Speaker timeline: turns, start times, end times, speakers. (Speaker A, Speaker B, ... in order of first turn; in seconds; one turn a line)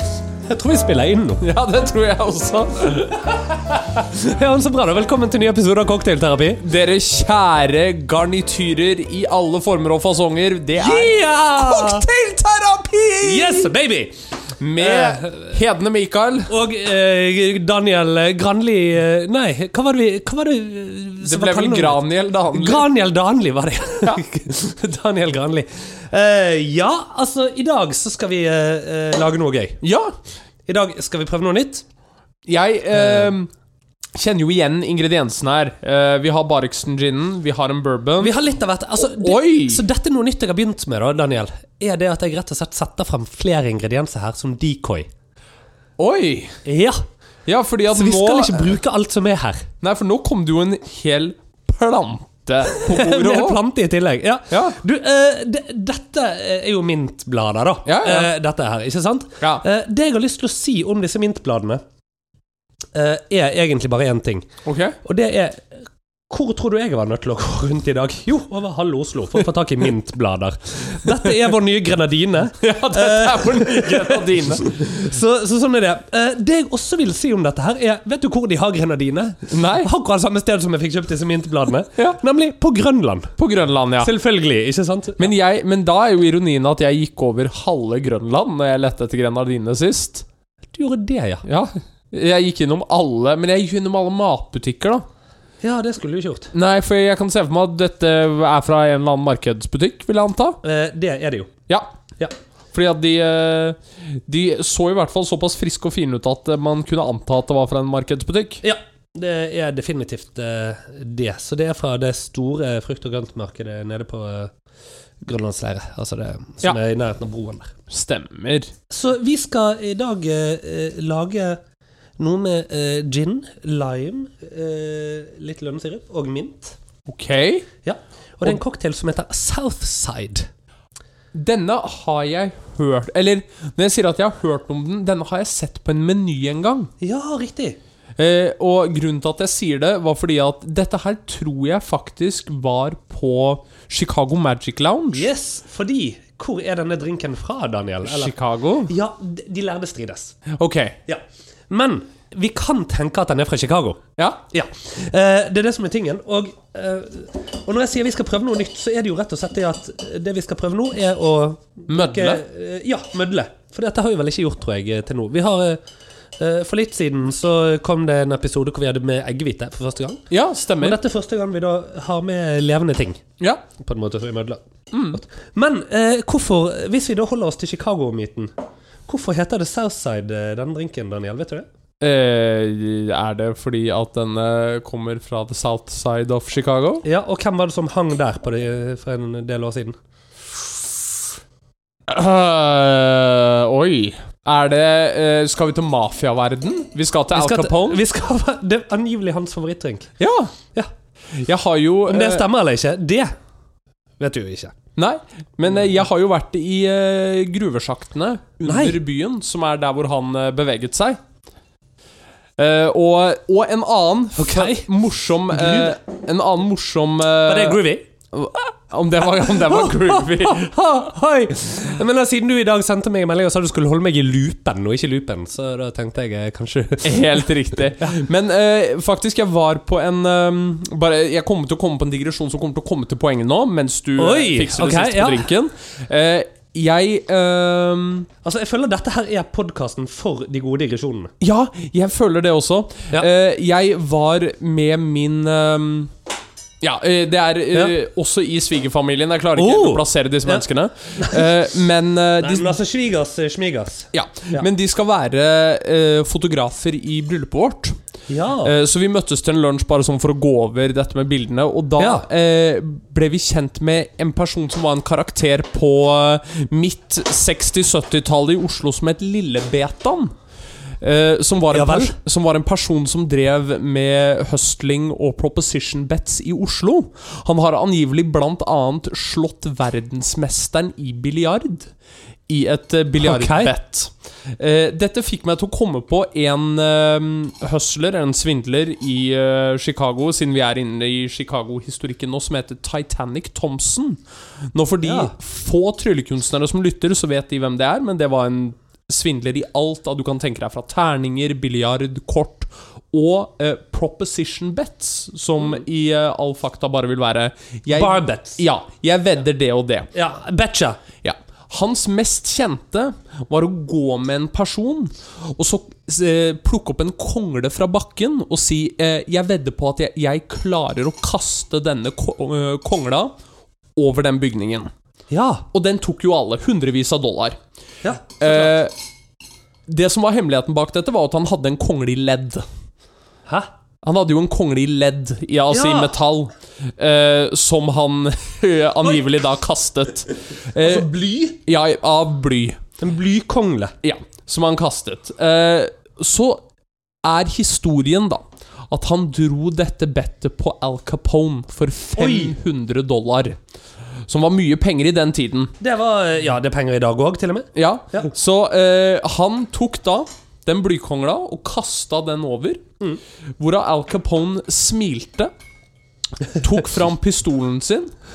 Speaker A: 0.5-1.4
Speaker B: 1.4-3.4
Speaker A: 3.3-6.6
Speaker B: 6.6-13.7
Speaker A: 10.8-12.1
Speaker A: 13.2-14.2
Speaker B: 14.6-16.5
Speaker A: 14.8-15.6
Speaker A: 16.5-29.8
Speaker B: 21.2-22.9
Speaker B: 29.8-30.1
Speaker A: 30.7-31.8
Speaker B: 32.5-33.5
Speaker A: 33.0-33.3
Speaker B: 34.1-38.4
Speaker A: 38.2-45.1
Speaker B: 39.0-39.8
Speaker B: 46.0-46.6
Speaker A: 46.6-47.0
Speaker B: 47.5-48.8
Speaker A: 47.9-49.7
Speaker B: 49.8-53.6
Speaker A: 52.7-61.8
Speaker B: 54.5-54.8
Speaker B: 57.9-58.3
Speaker B: 59.4-59.6
Speaker A: 62.9-64.5
Speaker B: 64.7-65.0
Speaker A: 65.0-83.3
Speaker B: 72.6-74.8
Speaker B: 79.5-79.9
Speaker B: 83.4-84.1
Speaker A: 84.0-85.3
Speaker B: 85.2-90.2
Speaker A: 90.7-91.4
Speaker B: 91.4-95.0
Speaker A: 95.6-96.5
Speaker B: 96.5-100.6
Speaker A: 100.6-101.5
Speaker B: 102.7-108.6
Speaker A: 108.6-114.5
Speaker A: 115.2-117.7
Speaker B: 117.9-118.7
Speaker A: 118.9-121.6
Speaker A: 122.2-126.8
Speaker B: 127.1-127.7
Speaker A: 127.8-130.5
Speaker B: 131.3-136.9
Speaker A: 137.0-137.8
Speaker B: 138.2-145.3
Speaker A: 145.1-148.3
Speaker B: 148.0-148.9
Speaker A: 148.9-150.4
Speaker B: 150.5-151.0
Speaker A: 151.1-165.8
Speaker B: 161.9-162.4
Speaker A: 166.4-170.2
Speaker B: 170.3-171.0
Speaker A: 170.8-173.2
Speaker B: 173.4-173.7
Speaker A: 173.8-174.6
Speaker B: 174.9-175.2
Speaker A: 175.1-178.5
Speaker A: 179.1-181.7
Speaker B: 182.0-187.1
Speaker A: 187.0-190.0
Speaker B: 192.1-198.0
Speaker A: 197.3-200.1
Speaker B: 200.2-200.5
Speaker B: 201.3-202.5
Speaker A: 202.1-203.3
Speaker A: 204.2-204.7
Speaker B: 205.0-211.2
Speaker A: 208.7-209.0
Speaker B: 212.6-220.7
Speaker A: 214.4-214.9
Speaker A: 215.5-216.0
Speaker A: 217.4-218.1
Speaker A: 219.3-227.5
Speaker B: 227.0-238.3
Speaker A: 234.2-235.5
Speaker A: 238.4-241.3
Speaker B: 241.4-246.1
Speaker B: 246.8-252.8
Speaker A: 249.6-250.6
Speaker A: 251.2-251.5
Speaker A: 252.4-254.7
Speaker B: 254.1-257.9
Speaker A: 258.3-258.7
Speaker B: 258.6-270.3
Speaker A: 262.0-262.2
Speaker B: 271.0-281.9
Speaker A: 271.7-272.1
Speaker B: 282.5-294.2
Speaker A: 283.2-283.7
Speaker B: 294.8-310.1
Speaker A: 295.0-295.3
Speaker A: 307.9-308.6
Speaker A: 310.1-311.0
Speaker B: 311.2-323.3
Speaker B: 323.9-324.9
Speaker A: 325.3-325.6
Speaker B: 325.7-327.6
Speaker A: 328.0-328.7
Speaker B: 328.4-328.9
Speaker B: 329.9-332.6
Speaker A: 333.4-333.7
Speaker B: 334.0-342.8
Speaker A: 335.7-336.1
Speaker A: 340.8-341.5
Speaker A: 343.0-343.9
Speaker B: 344.0-346.6
Speaker B: 347.2-353.6
Speaker A: 352.2-352.5
Speaker B: 354.3-355.7
Speaker A: 355.8-358.3
Speaker B: 357.8-362.9
Speaker B: 363.6-365.5
Speaker B: 366.5-368.1